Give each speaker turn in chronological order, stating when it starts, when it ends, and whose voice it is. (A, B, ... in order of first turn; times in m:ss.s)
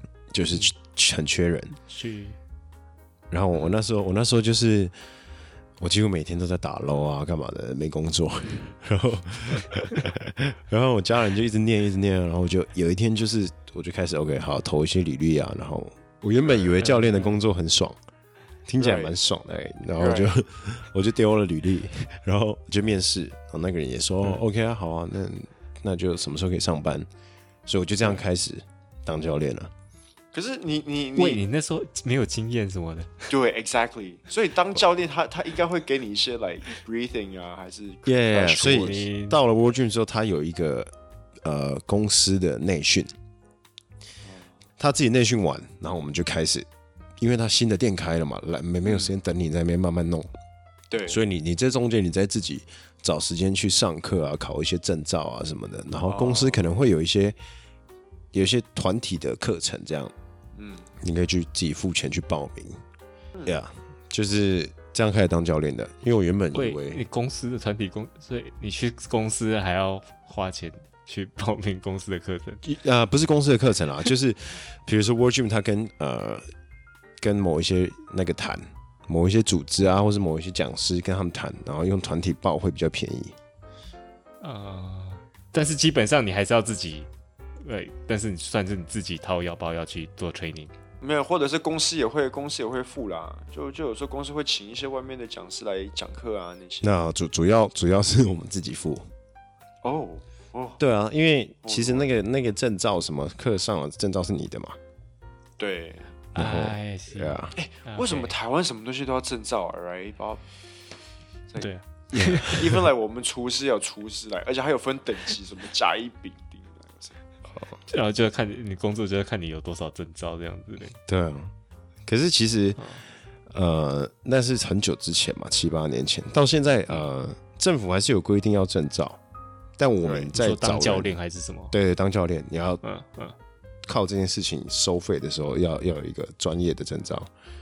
0:00.3-0:01.8 A
0:01.9-0:02.4 B
0:03.3-0:04.9 A
0:05.8-0:18.0 A
0:18.7-0:27.1 A
0:18.8-0:19.2 C
0:20.0-0:20.4 C
0:27.7-0:29.7 A
0:30.3-0:31.4 C
0:31.2-0:33.3 B
0:33.3-0:39.0 C
0:38.1-0:40.9 A
0:38.5-0:39.4 B
0:41.4-0:43.1 A
0:44.8-0:46.7 A
0:47.2-0:50.3 A
0:50.9-0:51.2 C
0:51.1-0:57.4 A
0:56.0-0:56.6 C
0:58.3-1:00.1 A
1:00.6-1:00.9 C
1:01.0-1:02.8 A
1:03.4-1:07.0 A
1:06.5-1:12.6 B
1:12.6-1:16.5 A
1:17.2-1:23.4 A
1:24.4-1:27.1 B
1:27.6-1:30.7 B
1:31.0-1:36.9 C
1:36.8-1:39.1 A
1:39.8-1:40.8 C
1:40.8-1:44.8 A
1:41.6-1:42.1 C
1:45.6-1:46.1 C
1:46.4-1:47.5 A
1:46.4-1:48.3 B
1:47.6-1:50.4 C
1:51.6-1:52.7 B
1:52.1-1:52.6 A
1:52.4-1:57.2 C
1:57.9-2:00.9 B
2:01.0-2:01.5 A
2:02.1-2:02.9 A
2:03.5-2:09.2 A
2:09.8-2:11.2 A
2:10.1-2:11.7 B
2:11.7-2:12.8 A
2:12.8-2:13.4 B
2:13.9-2:17.3 A